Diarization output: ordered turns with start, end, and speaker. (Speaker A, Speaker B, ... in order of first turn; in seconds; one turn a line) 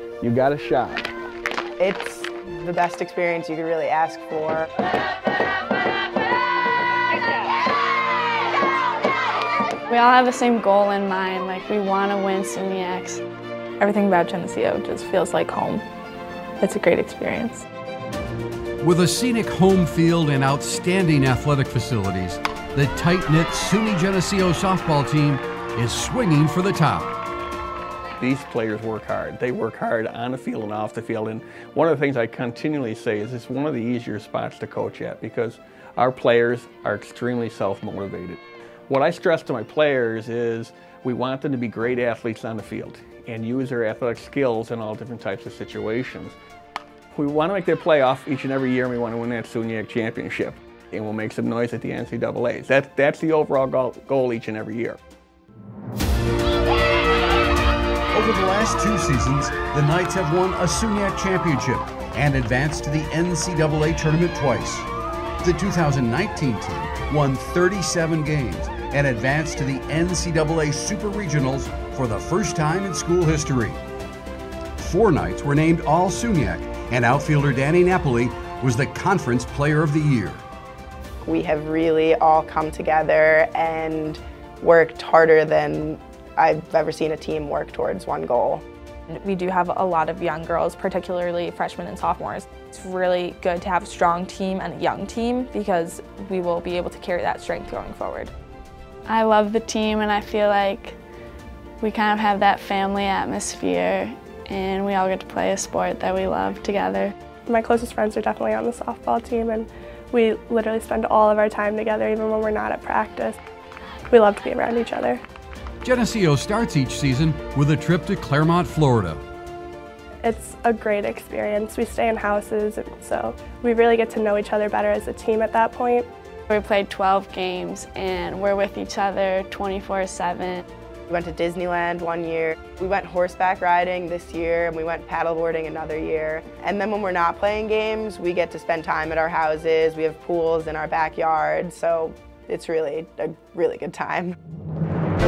Speaker A: 0.2-1.1
Speaker B: 1.8-4.7
Speaker C: 9.9-13.2
Speaker D: 13.8-15.8
Speaker D: 16.6-17.6
Speaker E: 18.8-27.1
Speaker A: 28.2-46.4
Speaker A: 47.1-55.0
Speaker E: 58.1-64.9
Speaker E: 65.4-73.8
Speaker E: 74.8-80.4
Speaker B: 81.2-88.6
Speaker D: 89.2-98.3
Speaker C: 99.1-101.0
Speaker C: 101.8-107.1
Speaker F: 107.5-113.3
Speaker F: 114.1-115.2
Speaker E: 115.8-119.2
Speaker F: 120.2-126.0
Speaker C: 126.5-130.6
Speaker B: 131.1-144.3